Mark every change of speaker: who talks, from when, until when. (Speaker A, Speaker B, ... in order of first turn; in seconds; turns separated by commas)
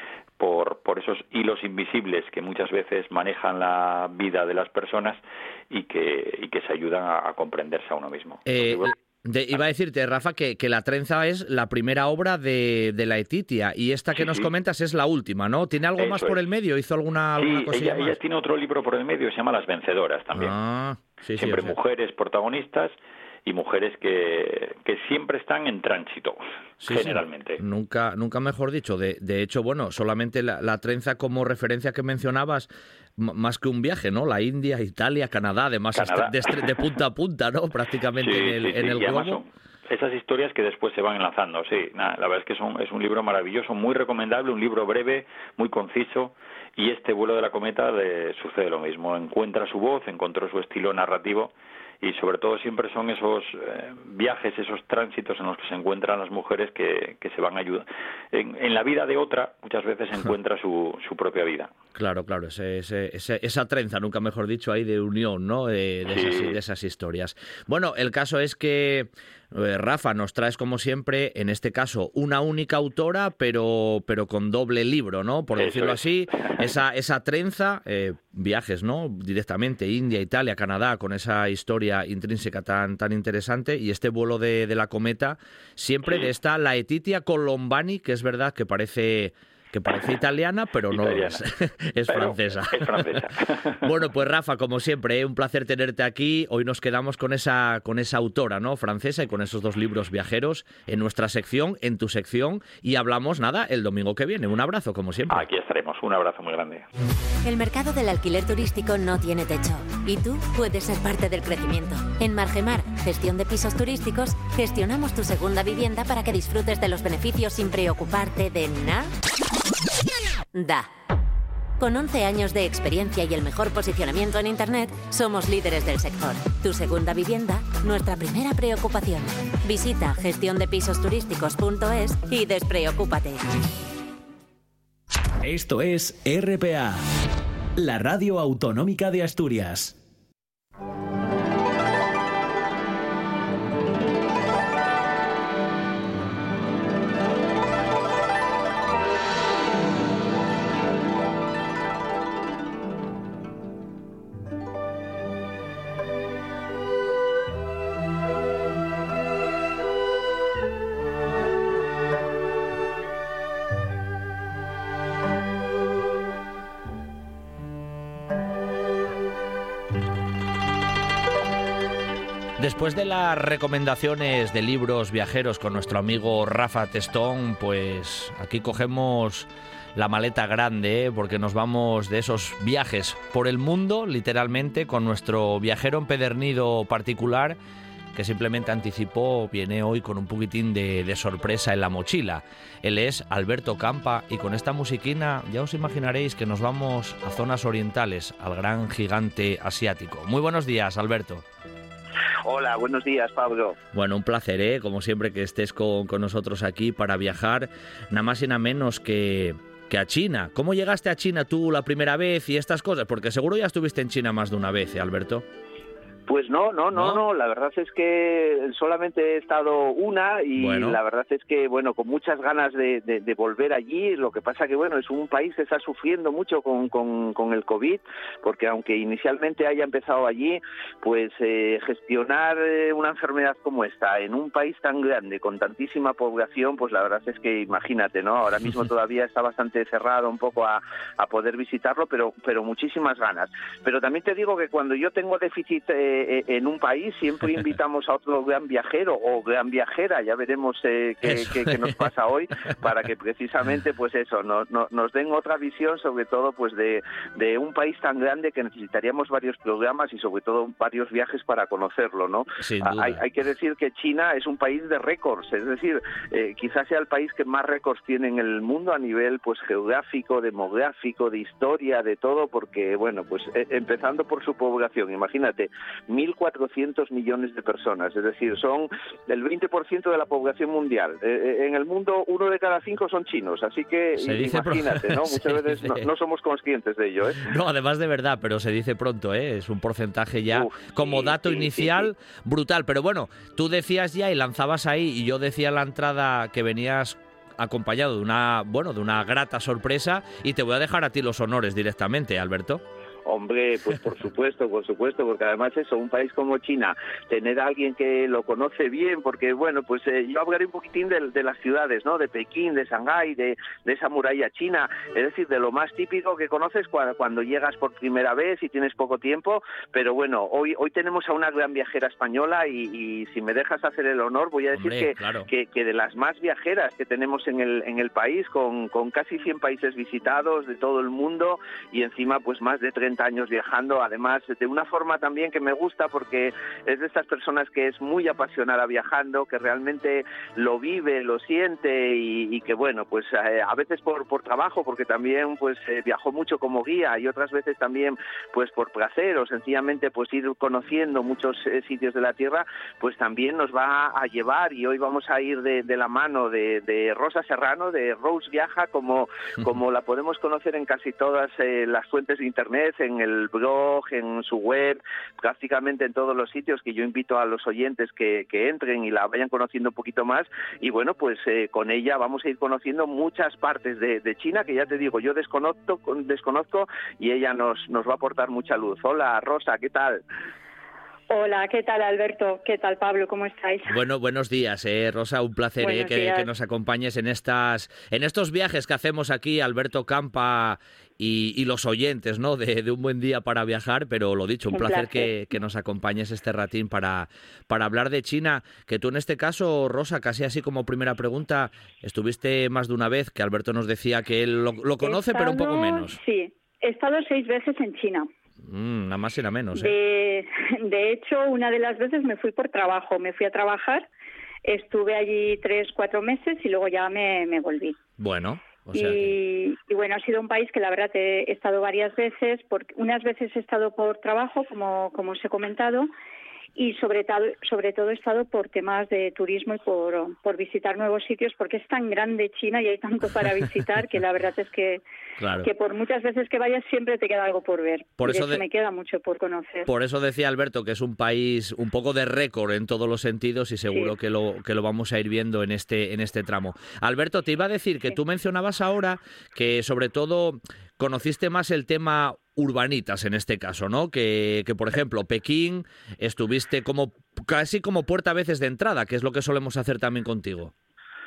Speaker A: 0.4-8.9, Speaker B: 8.4-18.2, Speaker A: 14.2-14.5, Speaker A: 16.0-16.4, Speaker A: 17.4-20.5, Speaker B: 20.3-21.8, Speaker A: 21.3-27.6, Speaker B: 26.8-39.4, Speaker A: 35.9-36.8, Speaker A: 38.2-61.7, Speaker B: 61.9-93.3, Speaker A: 66.1-66.6, Speaker A: 75.5-76.7, Speaker A: 90.9-91.4, Speaker A: 92.1-93.9, Speaker B: 93.8-105.5, Speaker A: 105.3-106.9, Speaker C: 107.4-119.1, Speaker C: 120.5-120.9, Speaker C: 121.8-133.4, Speaker D: 135.4-137.0, Speaker D: 137.8-140.0, Speaker B: 172.6-187.6, Speaker B: 188.1-201.4, Speaker E: 202.4-203.8, Speaker B: 203.9-215.4, Speaker E: 216.3-287.5, Speaker B: 216.9-217.2, Speaker B: 220.6-221.0, Speaker B: 251.2-252.1, Speaker B: 262.6-263.2, Speaker B: 284.2-286.1, Speaker B: 287.4-302.8, Speaker E: 290.5-292.1, Speaker E: 303.2-380.2, Speaker B: 324.7-325.5, Speaker F: 381.3-384.0, Speaker B: 383.9-406.2, Speaker F: 385.8-386.5, Speaker F: 394.7-395.3, Speaker F: 405.0-408.3, Speaker B: 408.6-409.9, Speaker F: 409.7-414.1, Speaker F: 414.6-418.0, Speaker B: 418.2-419.3, Speaker F: 418.9-426.1, Speaker F: 426.8-435.0, Speaker B: 435.4-435.7, Speaker F: 435.6-439.9, Speaker B: 438.2-438.6, Speaker B: 439.9-460.7